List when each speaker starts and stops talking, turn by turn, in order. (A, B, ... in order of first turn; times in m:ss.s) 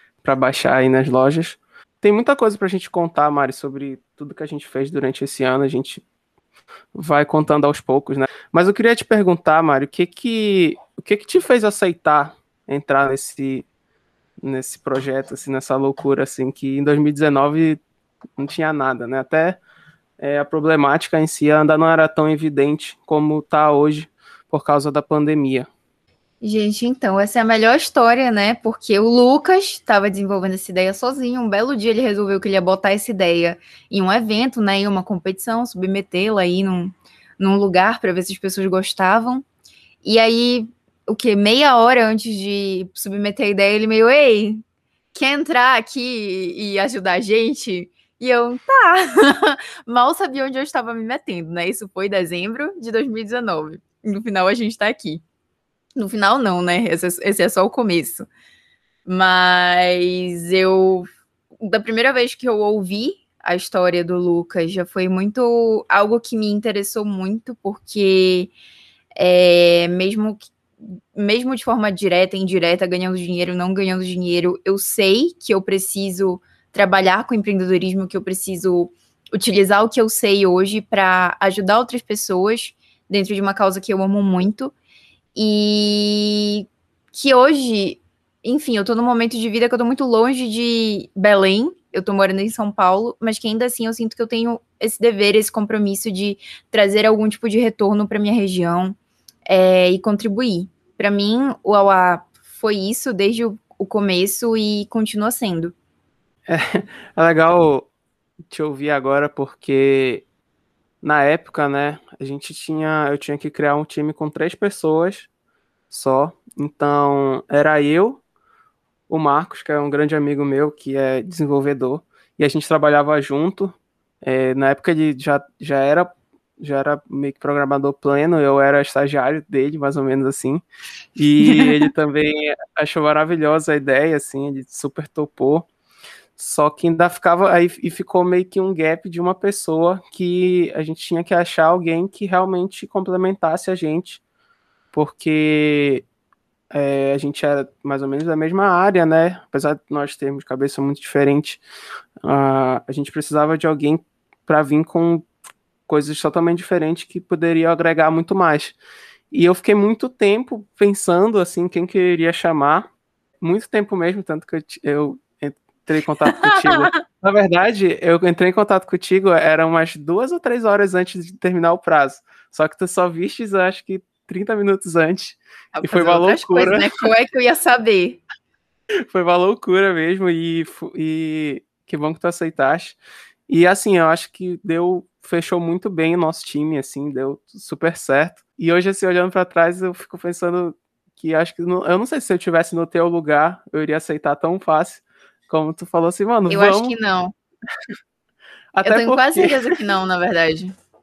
0:00.2-0:06.0 A
0:06.9-0:13.6 A
0:14.4-0:17.8 A
0:18.4-0:19.6 A
0:20.2-0:25.7 A
0:26.4-0:39.4 B
0:40.0-0:44.6 B
0:45.1-0:55.2 B
0:56.0-0:58.3 B
0:59.0-1:01.1 B
1:01.6-1:08.5 B
1:09.2-1:24.7 B
1:25.3-1:39.0 B
1:39.5-1:45.7 B
1:46.5-1:47.9 A
1:48.5-1:50.2 A
1:51.0-1:55.3 A
1:55.9-1:58.2 A
1:59.1-2:10.6 A
2:11.2-2:15.7 A
2:11.4-2:11.9 B
2:16.4-2:24.2 A
2:24.9-2:26.0 A
2:26.7-2:31.6 A
2:32.2-2:35.3 A
2:35.9-2:38.8 A
2:39.3-2:42.9 A
2:43.4-2:56.9 A
2:46.4-2:47.0 B
2:55.7-2:58.2 B
2:59.1-3:03.0 A
3:03.5-3:16.9 A
3:16.5-3:17.3 B
3:18.7-3:19.7 A
3:18.8-3:20.7 B